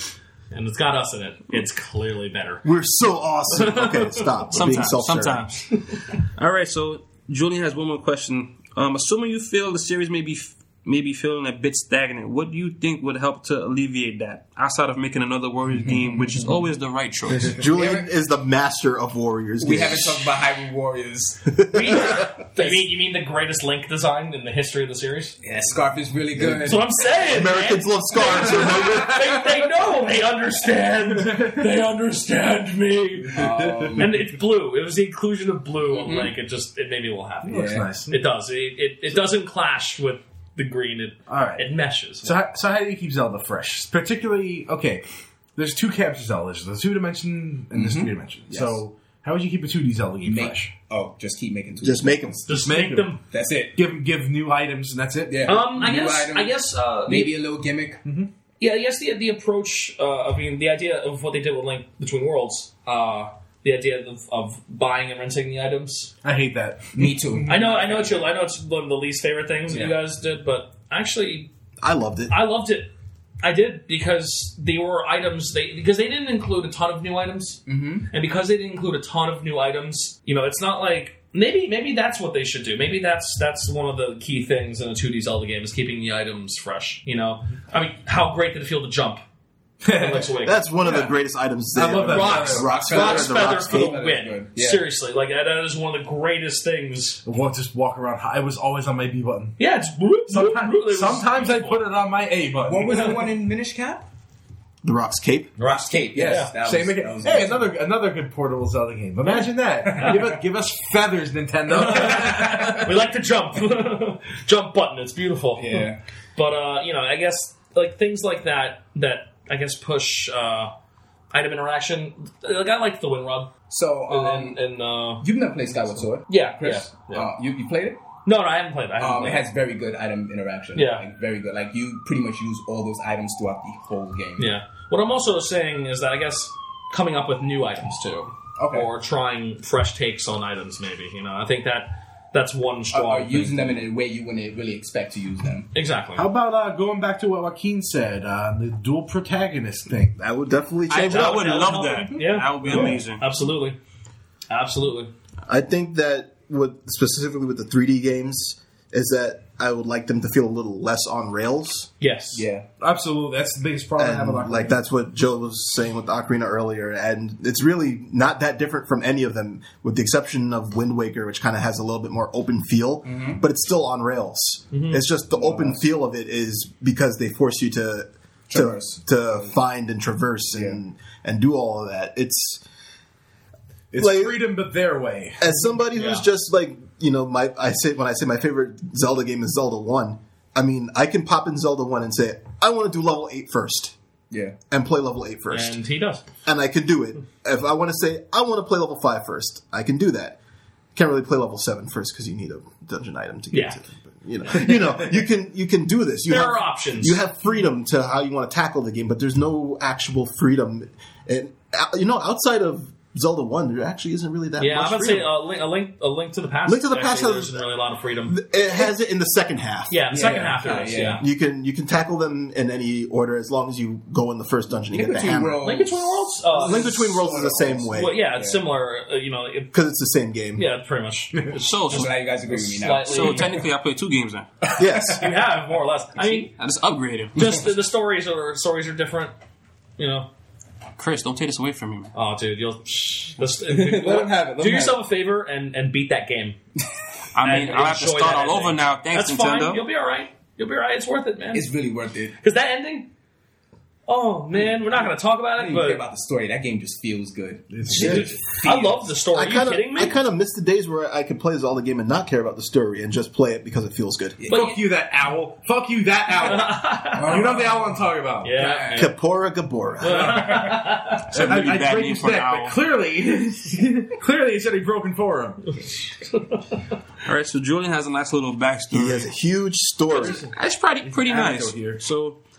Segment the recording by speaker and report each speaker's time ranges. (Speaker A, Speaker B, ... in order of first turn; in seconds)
Speaker A: 0.5-2.6, 3.5-4.8, 5.7-6.0, 21.7-25.4, 26.6-33.4, 34.0-42.4, 52.5-53.2, 55.4-57.4, 58.6-66.1, 67.5-71.5, 72.3-89.2, 89.9-91.1, 92.0-97.2, 99.6-101.8, 105.6-106.5, 111.7-120.7, 121.3-123.5, 124.1-125.3, 126.2-127.3, 128.2-129.5, 130.7-131.1, 134.4-143.8, 145.7-146.3, 150.9-153.8, 154.5-155.1, 162.0-162.5, 174.7-175.0, 185.9-186.3, 195.5-196.2, 203.5-203.8, 204.4-205.0, 206.3-207.2, 214.6-218.5, 219.9-221.2, 225.6-227.3, 227.9-229.7, 230.6-233.6, 235.1-236.5, 237.3-239.3, 240.0-240.3, 242.1-246.6, 247.4-251.7, 252.4-253.1, 254.1-256.0, 257.9-260.2, 264.5-264.8, 266.4-267.7, 268.4-269.1, 270.0-271.3, 275.8-276.8
Speaker B: 2.6-5.5, 17.4-20.4, 21.6-22.1, 27.2-29.2, 51.8-52.7, 71.8-72.5, 90.4-94.0, 104.8-105.5, 150.3-151.6, 155.5-161.9, 164.0-182.6, 184.0-184.4, 185.4-193.9, 194.7-195.8, 196.4-200.4, 200.9-215.3, 216.7-217.7, 218.3-220.0, 221.2-225.6, 226.6-228.2, 229.7-230.7, 234.8-235.2, 259.3-264.4, 268.9-270.5, 278.9-280.4
Speaker C: 4.5-5.7, 6.3-17.6, 150.9-153.2, 231.5-232.2, 233.1-234.5, 236.5-237.7, 241.0-242.1, 247.3-249.8, 271.2-272.8, 277.2-279.3, 280.4-282.4
Speaker D: 17.6-18.1, 19.6-21.5, 25.4-26.9, 33.3-34.2, 36.0-36.3, 37.5-37.9, 47.7-48.8, 50.2-52.5, 53.3-53.8, 55.3-58.0, 66.9-68.0, 69.7-70.0, 77.7-78.1, 92.4-94.8, 102.6-104.1, 105.6-107.7, 115.6-116.0, 123.7-124.6, 125.2-128.1, 129.0-134.5, 138.6-138.9, 142.9-145.7, 162.3-162.7, 173.0-173.4, 175.3-175.8, 178.5-179.5, 180.5-180.8, 194.3-194.6, 220.1-221.2, 224.9-228.7, 231.9-233.5, 251.5-252.4, 255.6-259.0, 264.4-264.8, 267.1-267.9, 268.6-269.0
Speaker E: 31.2-31.6, 33.2-34.2, 37.5-38.2, 41.3-45.0, 45.6-50.7, 52.6-53.2, 53.7-55.6, 58.0-58.3, 66.2-67.8, 89.8-90.3, 91.7-92.8, 97.2-99.6, 100.3-102.9, 106.2-113.0, 146.2-150.2, 162.8-164.8, 183.9-185.5, 243.7-245.1, 257.7-258.7, 264.5-268.8, 270.1-275.7, 281.0-282.0